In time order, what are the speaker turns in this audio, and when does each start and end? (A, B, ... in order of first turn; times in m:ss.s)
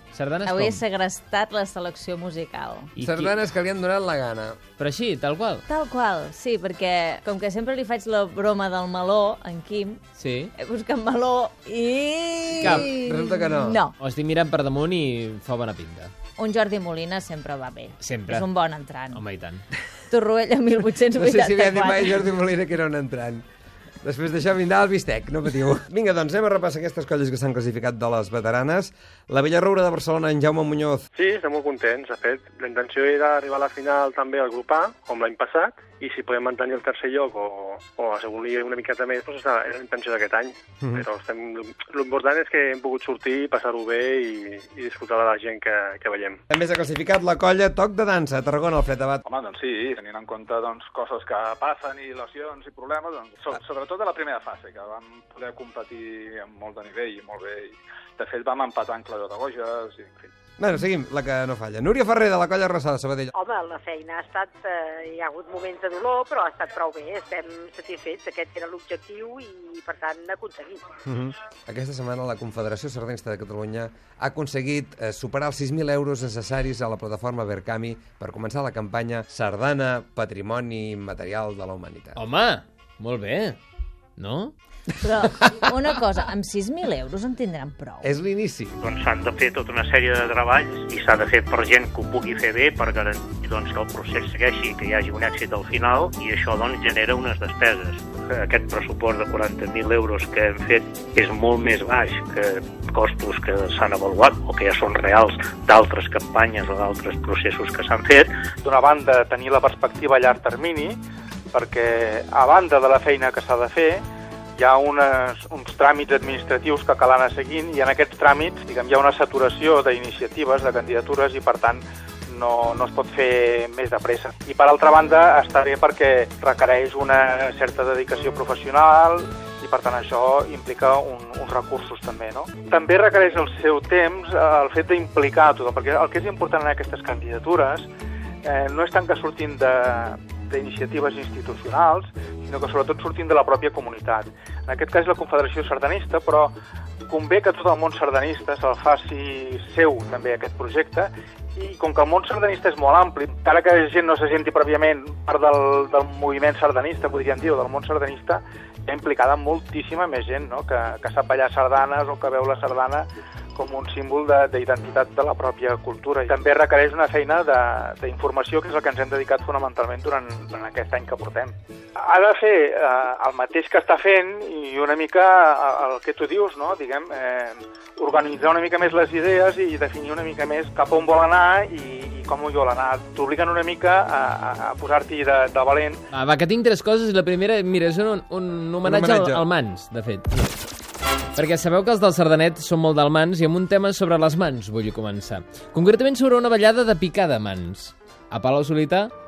0:00.1-0:00.8 A
0:00.4-0:02.9 B
0:03.0-0:03.4 A
0:03.0-0:04.6 C
0:04.8-0:05.7 A
0:05.7-0:10.0 B
0:10.2-0:10.5 A
0:10.6-0:14.0 B
0:12.6-0:12.9 A
0:12.6-0:13.8 C
0:14.0-0:16.1 A
0:16.4-0:19.2 B
0:18.0-0:18.5 A
0:19.1-0:19.6 A
0:20.1-0:22.3 B
0:21.2-0:23.4 C
0:24.0-0:31.0 C
0:31.2-0:46.4 D
0:46.5-0:49.2 C
0:49.3-1:00.3 E
1:00.6-1:03.3 C
1:03.3-1:10.9 F
1:11.1-1:22.2 C
1:22.2-1:23.6 A
1:24.2-1:24.5 A
1:25.0-1:28.1 B
1:28.0-1:28.7 C
1:28.8-1:48.3 G
1:48.6-1:51.0 H
1:51.5-1:54.0 H
1:54.6-2:17.9 H
2:18.4-2:26.5 H
2:27.1-3:06.0 H
3:06.1-3:10.6 A
3:08.8-3:09.4 C
3:11.4-3:19.1 A